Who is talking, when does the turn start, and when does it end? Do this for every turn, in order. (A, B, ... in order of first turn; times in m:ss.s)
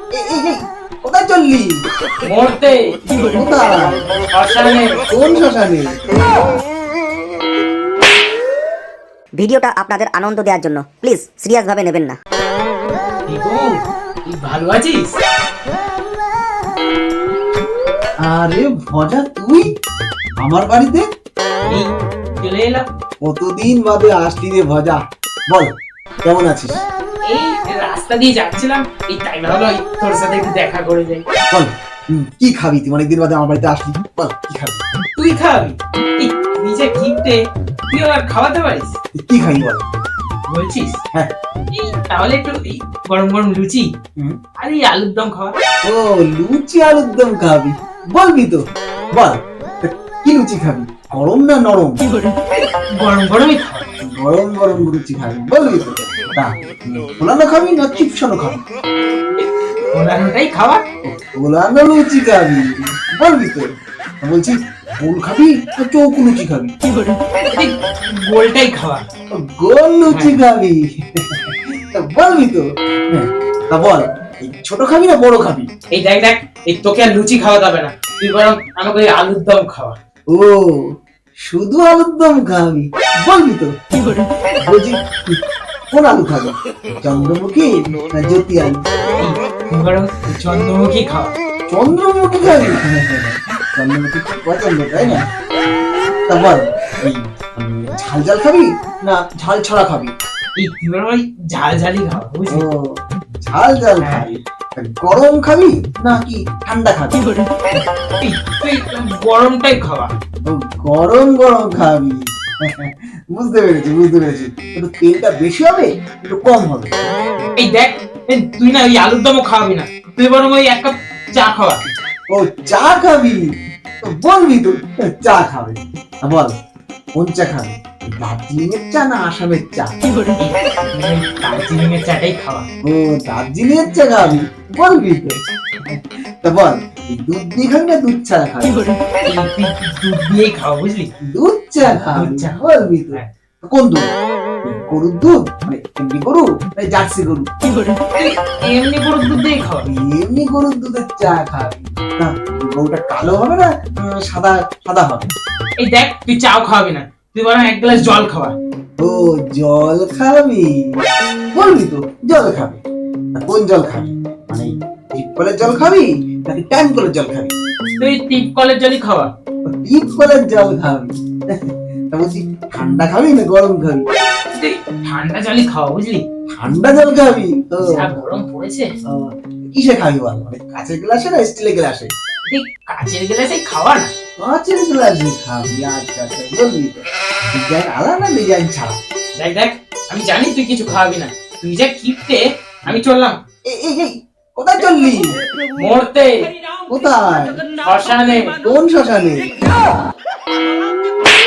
0:00.1-0:01.7 A
0:02.2-0:02.9 B
0:03.2-0:04.0 A
0:04.3-0:05.0 B
0:05.1-0:06.0 A
0:09.4-0:12.2 C
0:13.3-0:13.7 B
0:14.2-0:15.1 B
0:18.2-0:19.7 A
0:20.4-0:21.0 A
0:21.7-0:22.9 B
0:23.2-0:25.7 A
0:26.2-0:26.8 A
0:27.3-0:31.2 B
0:31.5-0:34.8 A
0:35.2-0:39.0 B
0:39.2-0:39.8 A
0:40.5-0:41.0 B
0:41.7-0:43.9 B
0:44.6-0:45.5 B
0:45.8-0:48.6 A
0:49.1-0:52.0 A
0:53.0-0:53.9 B
0:54.0-0:58.6 A
0:59.9-1:00.8 B
1:01.0-1:03.6 A
1:04.2-1:06.7 A
1:07.4-1:09.0 B
1:09.4-1:15.7 A
1:10.1-1:10.4 B
1:15.9-1:20.0 B
1:20.3-1:20.9 A
1:21.5-1:23.8 A
1:24.6-1:28.8 A
1:29.2-1:31.3 B
1:31.7-1:35.3 A
1:32.4-1:32.8 B
1:35.0-1:35.3 B
1:36.3-1:40.1 A
1:40.6-1:42.6 B
1:42.5-1:47.2 A
1:44.0-1:44.2 B
1:48.2-1:50.1 B
1:50.4-1:56.9 A
1:57.6-2:01.8 B
2:02.3-2:03.5 A
2:04.0-2:06.5 A
2:07.2-2:09.9 A
2:10.4-2:12.6 B
2:12.8-2:18.8 A
2:19.2-2:21.1 B
2:21.2-2:24.0 A
2:21.8-2:22.6 B
2:24.6-2:27.5 A
2:28.1-2:29.8 B
2:29.8-2:35.3 A
2:35.8-2:38.6 B
2:39.0-2:40.7 A
2:41.5-2:42.8 A
2:43.4-2:47.5 A
2:48.0-2:49.3 B
2:49.8-2:54.0 A
2:54.5-2:56.2 B
2:56.6-2:58.1 A
2:57.8-2:58.9 B
2:59.1-3:02.1 A
3:02.5-3:04.1 B
3:04.4-3:09.0 A
3:09.4-3:13.4 B
3:13.7-3:15.3 A
3:15.8-3:16.5 B
3:16.9-3:17.6 A
3:17.8-3:18.5 B
3:18.6-3:19.5 A